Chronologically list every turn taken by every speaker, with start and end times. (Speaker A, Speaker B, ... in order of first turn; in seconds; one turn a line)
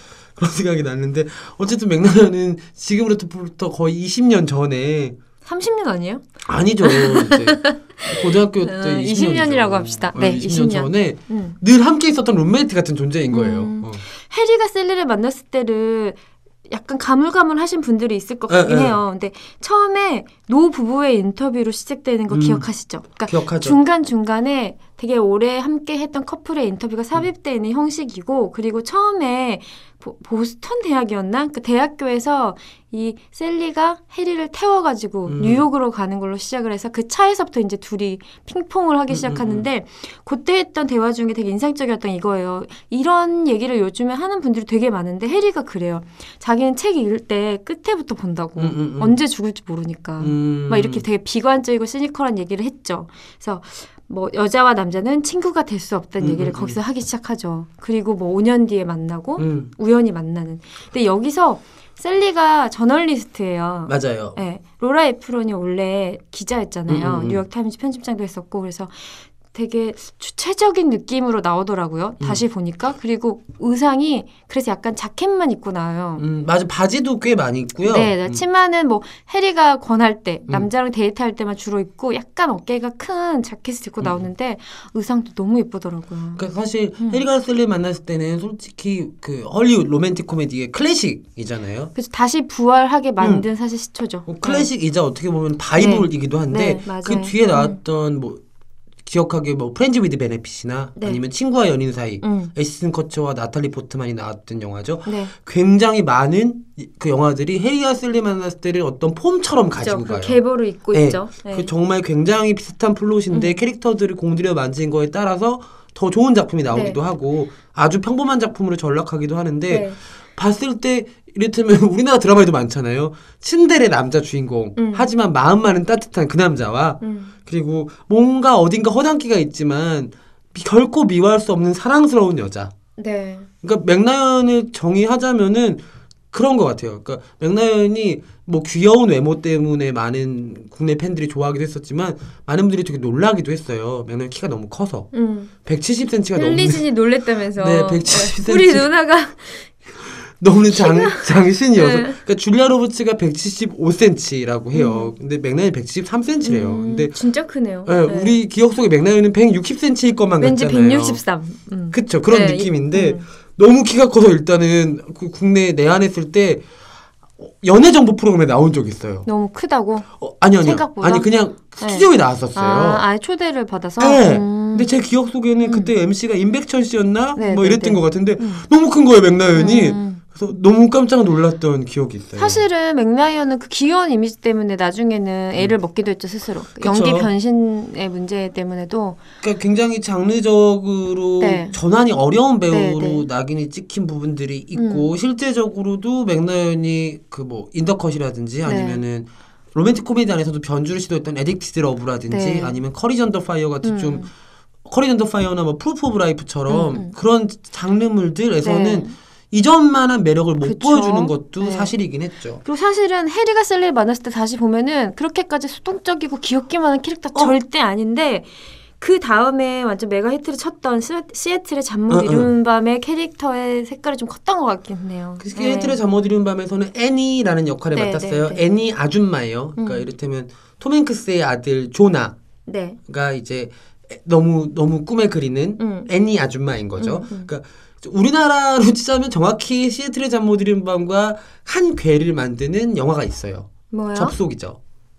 Speaker A: 0.4-5.2
Speaker B: 5.5-6.2
Speaker A: 6.5-14.0
Speaker B: 6.8-11.6
Speaker B: 13.3-76.2
Speaker A: 18.5-19.0
Speaker A: 22.3-22.7
Speaker A: 23.2-23.8
Speaker A: 35.3-35.6
Speaker A: 39.1-39.7
Speaker A: 48.6-49.2
Speaker A: 50.2-51.0
Speaker A: 56.2-56.8
Speaker A: 59.4-59.7
Speaker A: 63.9-64.4
Speaker A: 66.9-67.4
Speaker A: 76.2-78.4
Speaker B: 77.8-86.4
Speaker A: 86.4-91.9
Speaker B: 92.0-94.7
Speaker A: 93.2-93.5
Speaker A: 94.3-98.4
Speaker B: 95.8-97.8
Speaker A: 99.1-110.4
Speaker B: 102.2-102.5
Speaker B: 105.1-105.3
Speaker B: 109.8-111.7
Speaker A: 110.9-132.7
Speaker B: 113.3-113.6
Speaker B: 116.7-117.0
Speaker B: 119.7-120.0
Speaker B: 124.8-125.1
Speaker B: 127.0-127.3
Speaker B: 133.0-133.5
Speaker A: 133.6-135.8
Speaker A: 136.3-145.1
Speaker B: 145.1-145.5
Speaker A: 145.7-146.8
Speaker B: 146.3-149.7
Speaker A: 147.6-148.9
Speaker A: 150.4-157.1
Speaker B: 150.7-152.2
Speaker B: 154.7-155.1
Speaker B: 156.4-158.3
Speaker A: 157.9-161.2
Speaker B: 160.4-163.2
Speaker A: 161.9-166.6
Speaker A: 167.4-169.3
Speaker B: 169.3-170.1
Speaker A: 170.2-173.0
Speaker B: 170.6-174.9
Speaker A: 174.0-182.7
Speaker B: 175.7-175.9
Speaker B: 177.4-178.7
Speaker B: 179.5-180.2
Speaker B: 182.4-189.2
Speaker A: 186.8-187.3
Speaker A: 189.4-204.3
Speaker B: 191.4-191.8
Speaker B: 192.7-193.3
Speaker B: 194.8-195.1
Speaker B: 198.7-199.0
Speaker B: 202.3-202.8
Speaker B: 203.8-204.3
Speaker A: 204.9-212.6
Speaker B: 206.7-207.1
Speaker B: 208.6-209.1
Speaker B: 210.6-211.9
Speaker B: 212.6-226.0
Speaker A: 222.1-222.5
Speaker A: 225.4-232.4
Speaker B: 227.9-228.6
Speaker B: 229.8-230.1
Speaker B: 232.7-233.0
Speaker A: 233.1-244.8
Speaker B: 235.8-236.1
Speaker B: 237.0-237.5
Speaker B: 243.9-244.3